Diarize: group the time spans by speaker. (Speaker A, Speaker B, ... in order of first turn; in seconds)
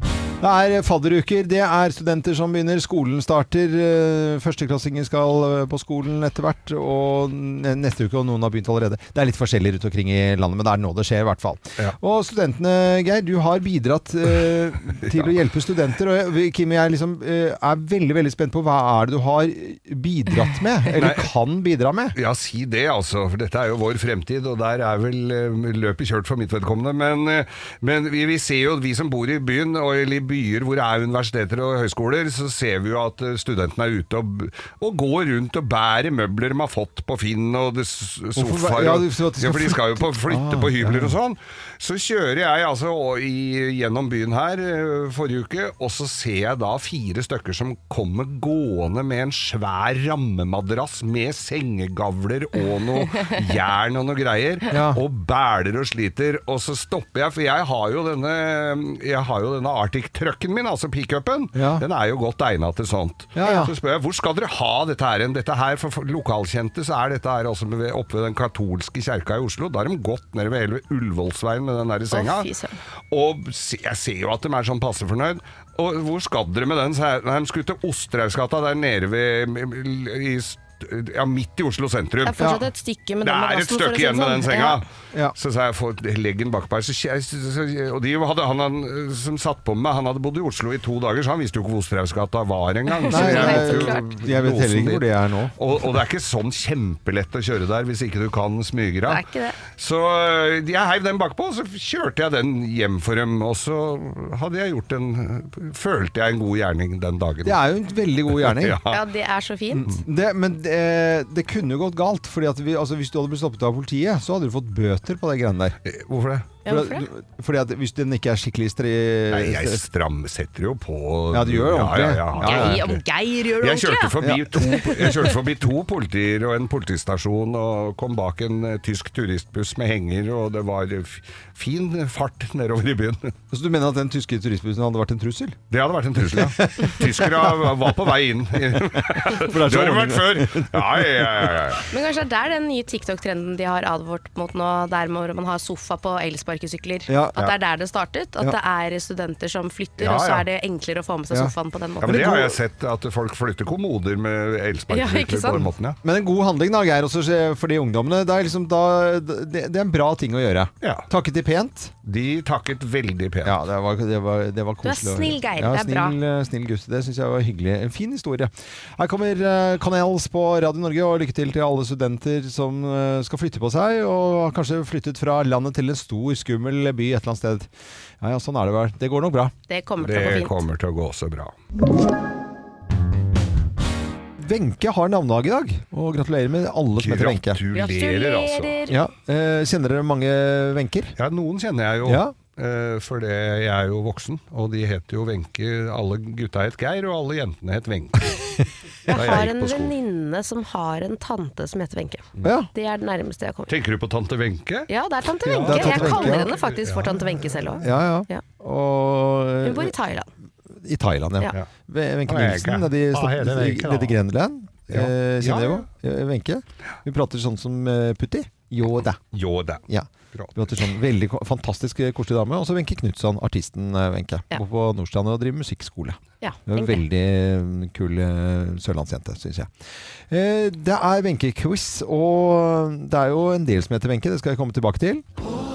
Speaker A: 0.4-22.1, 38.4-41.1, 54.7-55.0, 61.5-61.8, 63.3-63.7, 82.4-82.6, 93.1-95.5, 107.4-108.8, 109.7-115.8, 116.6-119.8, 121.3-122.8, 124.2-124.7, 133.5-135.6, 136.2-137.8, 139.1-141.8, 147.1-147.3, 151.3-152.6, 155.5-161.9, 163.4-177.7, 178.2-179.5, 184.4-187.6, 188.9-191.1, 192.0-192.3, 202.4-202.7, 205.6-206.5, 207.8-210.0, 210.7-219.2, 219.9-229.7, 230.3-235.2
Speaker B: 15.0-15.3, 20.9-21.3, 22.1-72.5, 73.1-82.5, 83.2-95.0, 95.6-107.6, 108.3-109.0, 115.8-116.5, 119.3-123.0, 123.6-133.3, 135.7-141.8, 150.0-150.4, 152.0-156.0, 160.8-161.1, 162.0-163.6, 180.0-181.5, 187.0-188.8, 191.2-199.9, 203.7-204.9, 205.4-207.8, 212.3-214.2, 214.9-215.9, 219.3-220.6
Speaker C: 72.1-72.8, 82.2-84.8, 92.9-94.0, 99.0-99.6, 108.9-109.8, 116.6-117.1, 122.4-125.3, 141.9-152.3, 154.9-155.7, 164.8-166.2, 179.7-180.6, 187.7-189.0, 199.1-203.7, 204.9-208.4, 209.6-210.3, 226.4-227.0